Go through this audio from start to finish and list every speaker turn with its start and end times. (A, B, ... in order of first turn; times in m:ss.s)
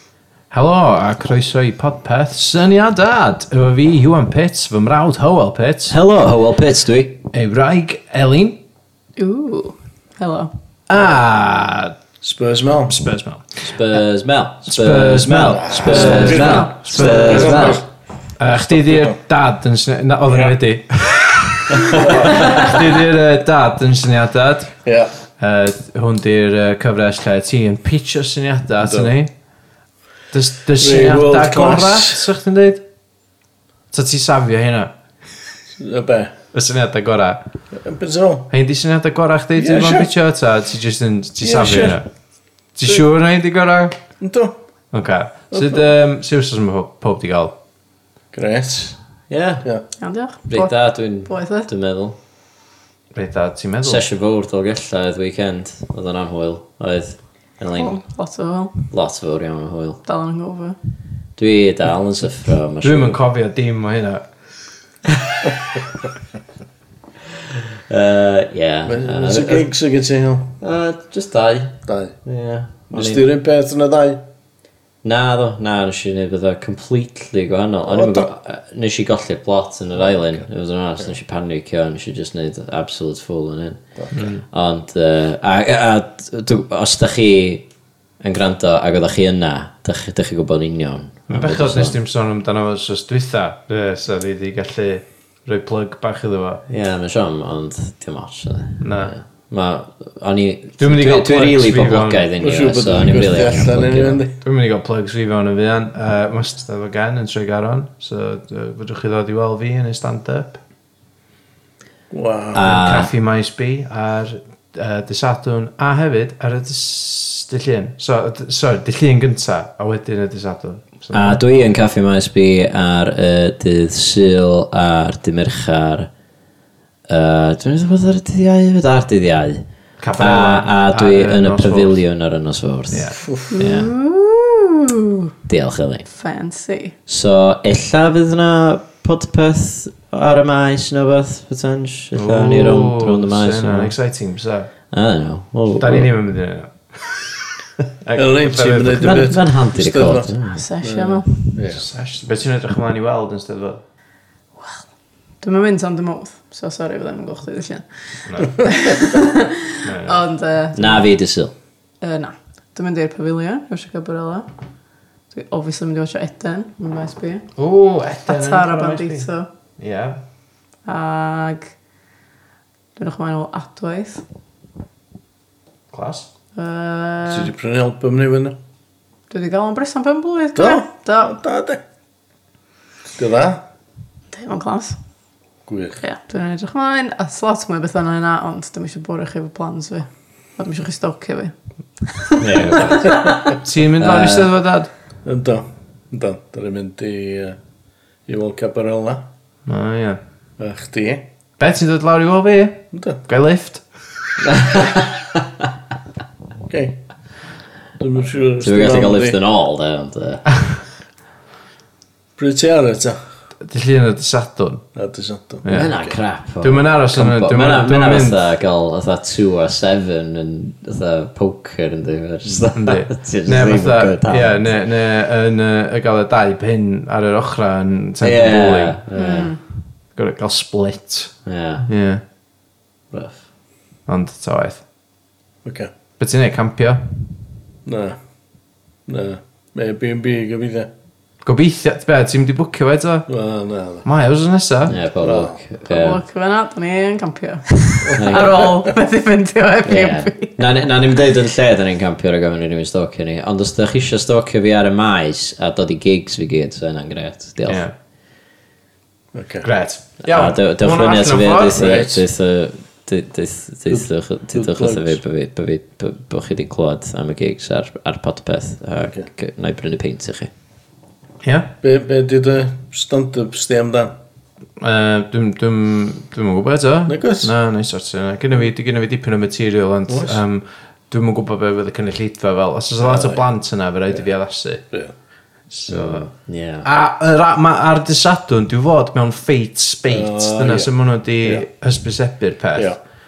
0:00.5-0:06.0 A
0:05.9-0:07.2 B
0:07.3-0:08.6 A
0:09.2-0:10.5 C
0:10.9-0:12.0 A
0:12.2-0:13.0 D
0:12.9-0:13.6 A
0:13.6-0:17.8 B
0:14.7-0:17.8 A
0:15.2-0:17.9 D
0:15.9-0:16.8 C
0:18.4-0:24.8 A
0:18.6-0:19.2 D
0:20.3-0:20.6 D
0:21.9-0:22.8 D
0:24.8-0:25.1 D
0:25.4-0:29.3 A
0:28.8-0:29.1 D
0:30.3-0:32.8 A
0:30.8-0:32.3 D
0:33.9-0:34.9 A
0:35.8-0:36.3 D
0:36.5-0:37.4 A
0:37.7-0:38.5 D
0:38.5-0:42.1 A
0:39.6-0:40.1 D
0:41.4-0:42.0 D
0:42.8-0:44.0 A
0:44.2-0:44.6 D
0:44.9-0:47.5 A
0:45.5-0:45.8 D
0:48.3-0:49.0 D
0:49.3-0:49.7 B
0:50.0-0:51.7 C
0:50.5-0:52.2 B
0:53.1-0:54.0 A
0:53.8-0:58.0 B
0:57.7-0:58.8 C
0:58.9-1:00.0 B
1:00.0-1:00.8 C
1:01.4-1:03.2 B
1:02.8-1:04.2 A
1:05.2-1:05.8 B
1:07.9-1:09.7 B
1:08.9-1:10.5 D
1:10.6-1:13.3 B
1:11.9-1:12.1 D
1:12.9-1:14.2 D
1:15.0-1:27.7 B
1:17.9-1:18.3 D
1:24.1-1:24.4 A
1:28.2-1:32.0 B
1:31.3-1:36.6 A
1:36.7-1:44.2 B
1:38.8-1:39.1 A
1:40.8-1:42.3 A
1:42.4-1:44.4 D
1:44.4-1:50.6 A
1:52.1-1:52.8 D
1:52.6-1:53.1 B
1:52.7-2:01.6 A
2:01.1-2:06.1 B
2:07.1-2:09.6 B
2:10.0-2:12.0 A
2:10.2-2:13.9 B
2:12.9-2:13.2 A
2:13.2-2:13.6 D
2:13.5-2:15.2 C
2:15.5-2:16.1 B
2:16.1-2:16.9 C
2:17.1-2:23.9 B
2:22.2-2:24.7 A
2:24.9-2:26.1 B
2:25.8-2:27.3 A
2:28.0-2:29.3 A
2:28.2-2:31.8 D
2:29.0-2:30.6 B
2:30.5-2:31.5 C
2:31.7-2:33.8 A
2:35.4-2:41.1 C
2:38.3-2:38.6 A
2:39.8-2:40.2 A
2:40.7-2:41.5 B
2:42.0-2:44.5 C
2:45.3-2:47.5 C
2:47.6-2:49.3 A
2:48.3-2:49.5 C
2:49.8-2:50.2 A
2:50.9-2:51.7 C
2:53.0-2:54.2 C
2:55.9-2:56.3 A
2:56.6-2:57.5 C
2:57.3-2:58.6 D
2:59.3-3:01.4 C
3:00.6-3:01.8 D
3:03.2-3:03.6 D
3:04.3-3:05.0 C
3:05.7-3:06.0 D
3:06.0-3:13.4 C
3:12.4-3:14.5 B
3:13.5-3:14.9 A
3:15.2-3:17.6 D
3:18.3-3:19.3 D
3:19.7-3:20.2 A
3:20.6-3:21.3 D
3:21.6-3:23.8 A
3:22.9-3:23.2 D
3:24.4-3:25.4 B
3:26.7-3:27.0 D
3:28.0-3:29.4 D
3:28.6-3:30.6 B
3:32.4-3:33.2 D
3:33.6-3:34.8 A
3:35.0-3:36.2 D
3:35.6-3:35.9 A
3:35.7-3:44.7 B
3:36.6-3:38.4 A
3:42.8-3:49.0 A
3:48.2-3:49.5 B
3:49.2-3:49.6 C
3:50.2-3:51.3 A
3:51.5-3:51.9 B
3:51.9-3:52.2 A
3:53.1-3:53.5 B
3:54.1-3:54.8 A
3:55.6-3:55.9 D
3:56.2-3:57.0 A
3:57.9-3:58.2 D
3:59.1-4:00.9 D
4:01.4-4:03.3 A
4:03.3-4:04.1 D
4:04.0-4:05.0 A
4:04.9-4:06.2 B
4:05.2-4:05.6 D
4:05.9-4:10.6 C
4:08.0-4:08.9 D
4:08.2-4:08.7 B
4:09.9-4:17.8 B
4:17.7-4:17.9 A
4:19.3-4:19.7 D
4:19.6-4:22.1 A
4:20.2-4:30.5 B
4:21.8-4:22.2 D
4:23.9-4:25.2 D
4:31.4-4:31.7 A
4:31.8-4:34.1 D
4:34.8-4:44.8 A
4:37.1-4:37.5 D
4:40.1-4:40.4 D
4:43.0-4:43.5 D
4:45.7-4:46.3 A
4:45.9-4:46.9 B
4:46.8-4:53.0 A
4:50.1-4:51.7 D